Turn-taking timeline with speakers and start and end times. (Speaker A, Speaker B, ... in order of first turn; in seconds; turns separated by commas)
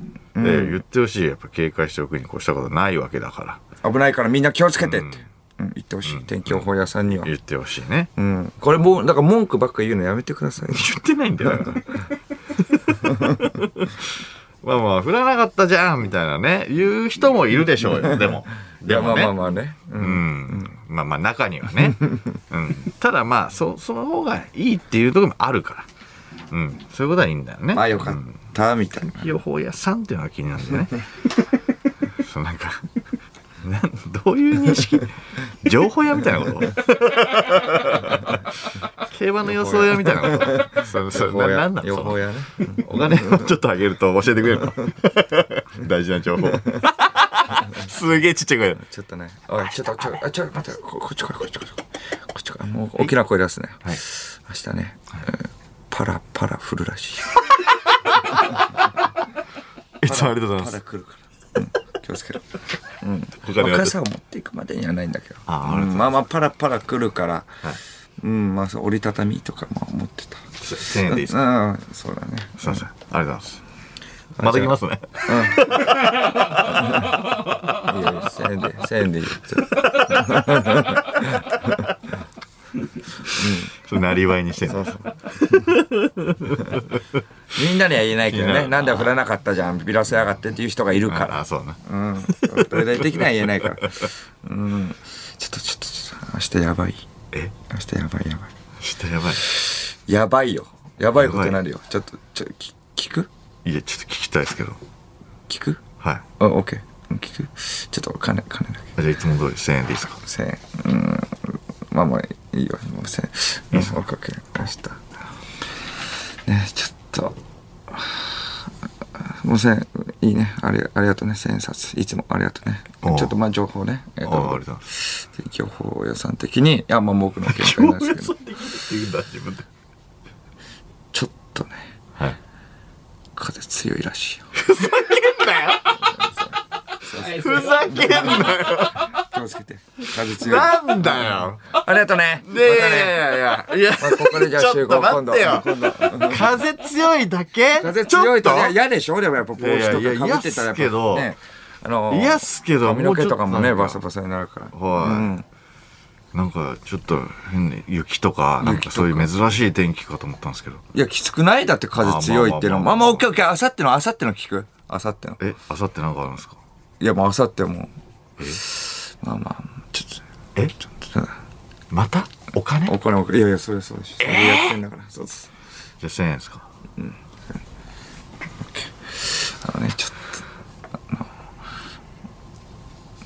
Speaker A: 0.3-0.8, Speaker B: 0.4-3.6, Speaker A: 3.8-7.3, Speaker B: 4.8-5.2, Speaker B: 6.1-6.7, Speaker B: 7.2-8.1, Speaker A: 8.2-11.8, Speaker B: 10.7-12.1, Speaker B: 12.8-19.3, Speaker A: 13.0-13.6, Speaker A: 18.8-20.7, Speaker B: 20.0-25.9, Speaker B: 26.5-28.4, Speaker A: 27.7-29.3, Speaker B: 29.1-31.0, Speaker B: 32.2-32.9, Speaker B: 33.6-48.8, Speaker A: 39.5-43.4, Speaker A: 48.8-57.4, Speaker B: 57.9-58.8, Speaker A: 58.3-58.8, Speaker B: 60.0-60.8, Speaker A: 60.0-67.5, Speaker B: 63.4-64.0, Speaker B: 65.5-66.2, Speaker A: 68.2-72.8, Speaker B: 70.6-71.5, Speaker B: 72.6-73.6, Speaker A: 74.4-75.9, Speaker B: 74.4-77.1, Speaker A: 76.6-77.2, Speaker A: 77.7-81.8, Speaker B: 79.8-80.4, Speaker B: 81.2-81.8, Speaker B: 83.3-87.2, Speaker A: 83.3-83.7, Speaker A: 84.7-85.7, Speaker A: 87.5-97.0, Speaker B: 88.3-89.2, Speaker B: 91.1-91.8, Speaker B: 92.3-94.1, Speaker A: 97.7-98.5, Speaker B: 98.8-99.5, Speaker A: 99.4-103.3, Speaker B: 101.2-101.6, Speaker B: 103.6-104.8, Speaker A: 105.5-105.8, Speaker A: 106.4-108.9, Speaker B: 109.0-110.2, Speaker A: 110.2-115.0, Speaker A: 116.5-117.4, Speaker A: 117.9-118.6, Speaker A: 119.2-128.3, Speaker B: 123.0-123.3, Speaker B: 124.2-124.8, Speaker B: 127.4-129.7, Speaker A: 131.1-131.9, Speaker A: 133.3-134.4, Speaker B: 134.5-136.2, Speaker A: 136.0-143.2, Speaker B: 137.1-139.2, Speaker B: 140.2-141.8, Speaker B: 142.4-148.8, Speaker A: 143.9-146.5, Speaker A: 147.8-155.4, Speaker B: 149.6-151.3, Speaker B: 152.1-154.0, Speaker B: 154.7-155.3, Speaker B: 156.3-160.8, Speaker A: 158.6-159.3, Speaker A: 160.9-165.4, Speaker B: 162.0-163.2, Speaker B: 165.4-166.6, Speaker A: 167.0-167.9, Speaker A: 168.6-170.2, Speaker A: 170.8-171.3, Speaker B: 171.9-172.9, Speaker A: 172.9-175.5, Speaker B: 174.2-174.7, Speaker B: 176.0-176.7, Speaker A: 178.6-180.4